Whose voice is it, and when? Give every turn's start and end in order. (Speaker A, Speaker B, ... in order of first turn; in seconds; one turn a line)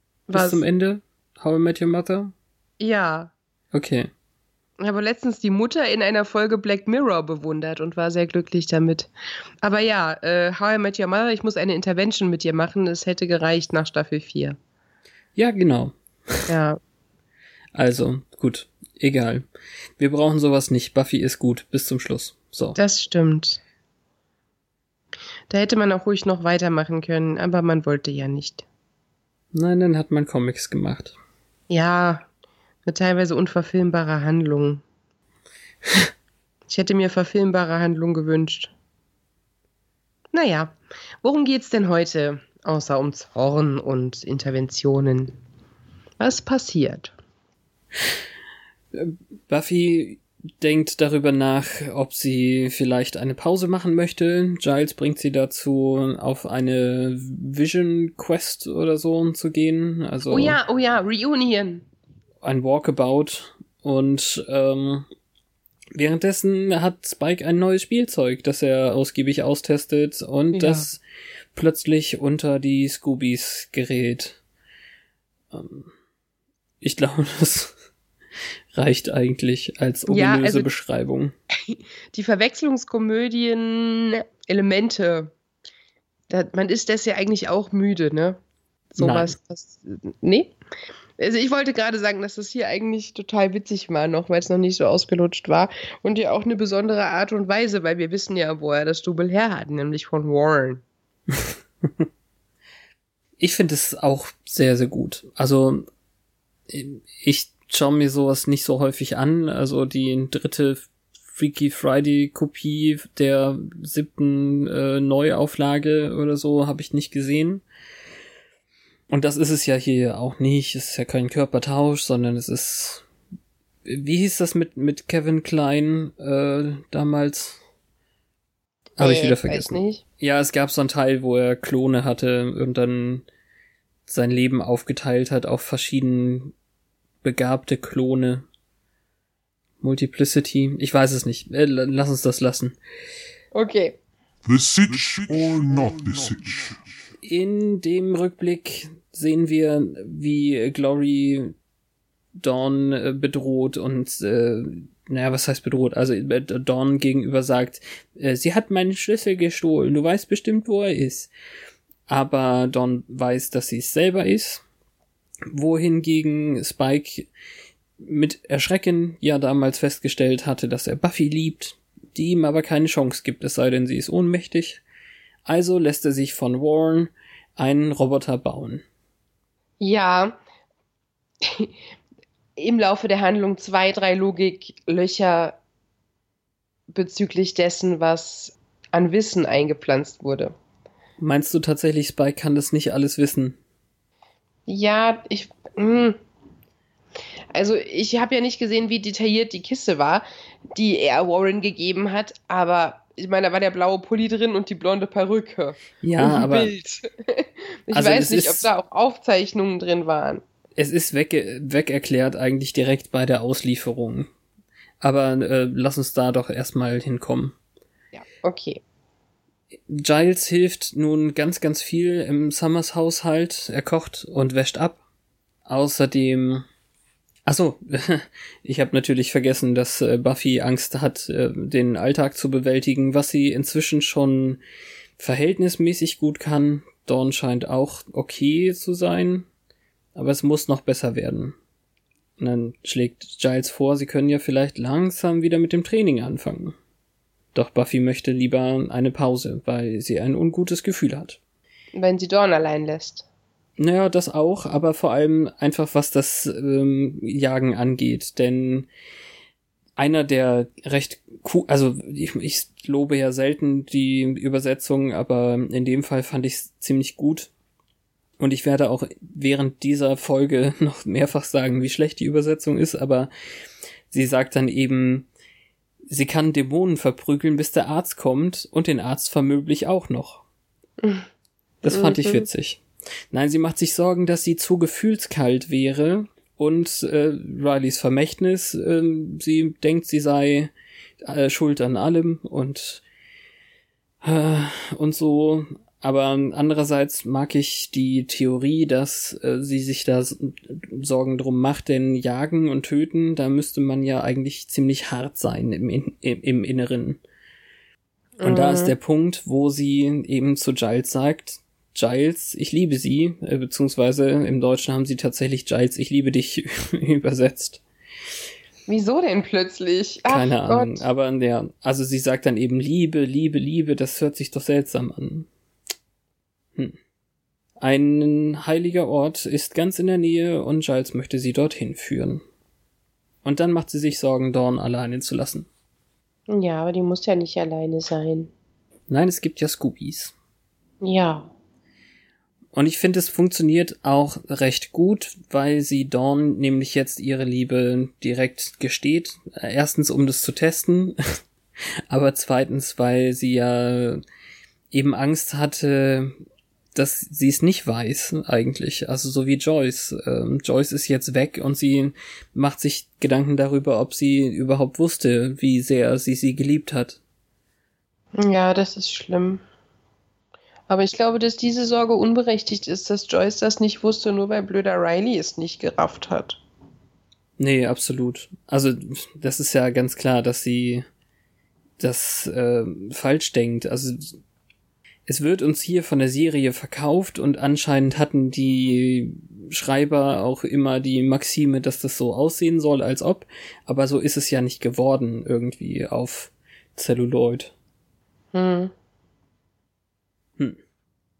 Speaker A: 0.3-0.6
Speaker B: 0.3-2.3
Speaker A: 2.8-3.3
Speaker B: 3.7-4.1
Speaker A: 4.8-9.1
Speaker A: 9.6-14.6
Speaker B: 15.3-16.5
Speaker A: 16.5-16.8
Speaker B: 17.7-19.4
Speaker B: 20.0-22.8
Speaker A: 22.7-23.6
Speaker A: 25.5-28.6
Speaker B: 29.5-31.1
Speaker A: 31.7-32.2
Speaker A: 32.9-34.8
Speaker A: 36.7-38.7
Speaker A: 40.3-45.3
Speaker A: 46.2-47.1
Speaker B: 48.9-60.6
Speaker A: 60.2-61.8
Speaker B: 62.4-65.0
Speaker B: 65.9-71.0
Speaker A: 70.5-70.8
Speaker B: 71.5-74.4
Speaker B: 75.5-75.9
Speaker B: 76.8-77.7
Speaker B: 78.7-81.3
Speaker A: 80.1-80.7
Speaker A: 81.7-85.3
Speaker A: 86.3-88.4
Speaker A: 88.9-90.5
Speaker B: 89.0-89.3
Speaker A: 91.2-100.8
Speaker B: 101.3-102.0
Speaker B: 103.4-105.8
Speaker B: 106.7-117.6
Speaker B: 119.1-123.0
Speaker B: 123.8-127.6
Speaker B: 129.0-133.2
Speaker A: 129.0-130.0
Speaker B: 134.1-136.5
Speaker B: 137.2-138.4
Speaker B: 139.8-142.8
Speaker A: 143.5-144.0
Speaker C: 144.4-146.8
Speaker B: 147.2-151.5
Speaker B: 152.4-161.3
Speaker B: 162.1-164.6
Speaker B: 165.5-167.3
Speaker B: 168.0-174.8
Speaker B: 175.4-178.8
Speaker A: 179.8-180.4
Speaker A: 181.4-181.7
Speaker A: 182.6-185.6
Speaker A: 186.9-190.5
Speaker B: 191.2-193.6
Speaker A: 194.7-196.2
Speaker A: 197.5-210.4
Speaker B: 206.0-206.7
Speaker B: 207.9-208.7
Speaker B: 210.8-214.3
Speaker B: 215.0-217.6
Speaker A: 218.1-218.8
Speaker B: 219.9-225.0
Speaker B: 225.7-226.7
Speaker B: 227.4-234.6
Speaker B: 235.2-239.4
Speaker B: 240.1-241.6
Speaker B: 242.4-246.7
Speaker B: 247.5-251.4
Speaker A: 251.9-253.2
Speaker B: 253.8-258.9
Speaker B: 259.9-267.5
Speaker B: 268.4-273.3
Speaker B: 274.1-275.3
Speaker B: 276.1-280.4
Speaker B: 281.8-290.7
Speaker A: 281.9-282.4
Speaker B: 291.2-293.0
Speaker B: 294.2-307.2
Speaker A: 308.4-308.9
Speaker B: 308.4-317.8
Speaker A: 318.9-321.0
Speaker B: 320.2-325.5
Speaker B: 327.8-332.4
Speaker B: 333.4-335.7
Speaker A: 336.5-338.5
Speaker B: 339.1-340.3
Speaker A: 341.0-341.5
Speaker B: 342.7-351.2
Speaker B: 352.1-354.2
Speaker B: 354.9-356.4
Speaker B: 356.9-367.2
Speaker A: 368.4-369.6
Speaker A: 370.9-376.6
Speaker B: 377.6-381.0
Speaker B: 382.0-384.4
Speaker B: 385.3-397.7
Speaker A: 398.5-398.9